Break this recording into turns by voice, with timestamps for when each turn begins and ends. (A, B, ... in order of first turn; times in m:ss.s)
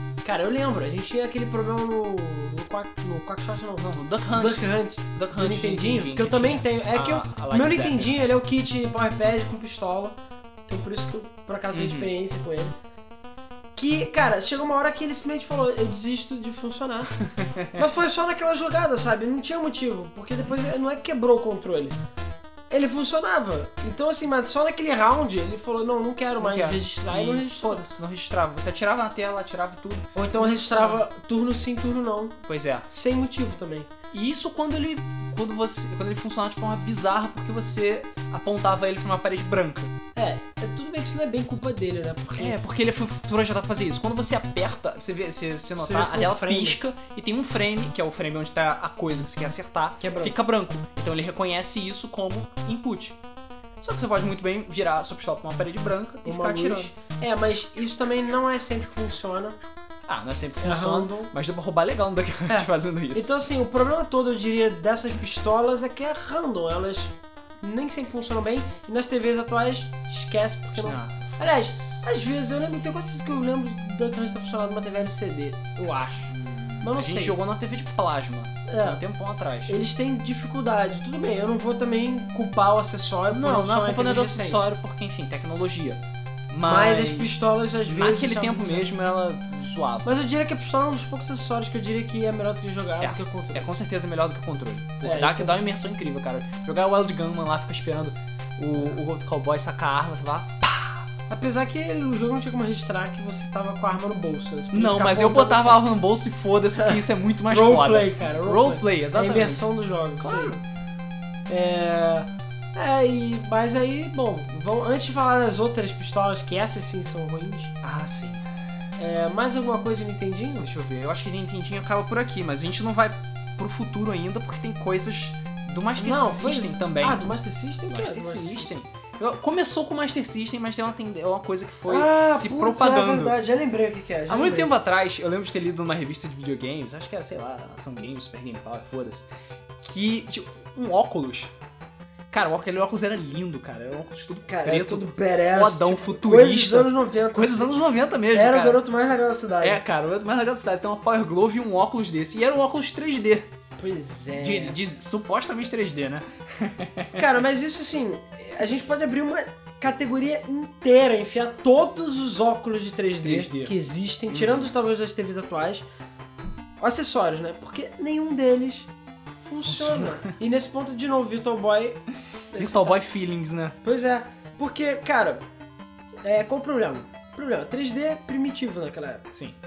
0:00.2-0:10.2 A
0:03.8-0:08.1 B
0:10.7-0:12.7 A
0:11.7-0:12.1 B
0:13.7-0:17.1 A
0:17.2-0:17.8 B
0:17.7-0:22.0 A
0:22.7-0:27.8 A
0:26.4-0:31.0 B
0:30.1-0:33.9 A
0:32.5-0:32.9 B
0:34.1-0:39.9 B
0:40.1-0:42.6 A
0:42.4-0:53.2 B
0:45.8-0:46.8 A
0:50.0-0:50.3 A
0:53.8-0:56.9 B
0:56.2-0:59.6 A
1:00.1-1:03.3 B
1:00.6-1:01.3 A
1:02.5-1:17.4 A
1:10.8-1:12.0 B
1:16.3-1:19.8 B
1:18.7-1:19.0 A
1:19.7-1:24.6 A
1:23.3-1:30.1 B
1:26.6-1:28.9 A
1:30.0-1:33.7 A
1:33.0-1:41.0 B
1:35.0-1:35.6 A
1:41.3-1:45.8 A
1:44.7-1:49.6 B
1:46.7-1:50.6 A
1:50.2-1:50.6 B
1:51.5-1:57.7 A
1:57.8-1:58.4 B
1:59.0-2:00.7 A
2:00.6-2:07.3 B
2:06.0-2:08.7 A
2:07.9-2:13.4 B
2:11.9-2:14.7 A
2:14.3-2:19.3 B
2:19.8-2:21.5 B
2:22.3-2:28.8 B
2:24.5-2:29.8 A
2:29.6-2:33.5 B
2:33.8-2:34.8 A
2:34.4-2:37.2 B
2:37.1-2:45.8 A
2:43.2-2:43.7 B
2:44.3-2:44.7 B
2:46.8-2:48.9 A
2:49.4-2:53.0 A
2:49.6-2:50.3 B
2:52.5-2:53.8 B
2:53.8-2:55.4 A
2:56.2-2:59.3 A
2:59.3-2:59.6 B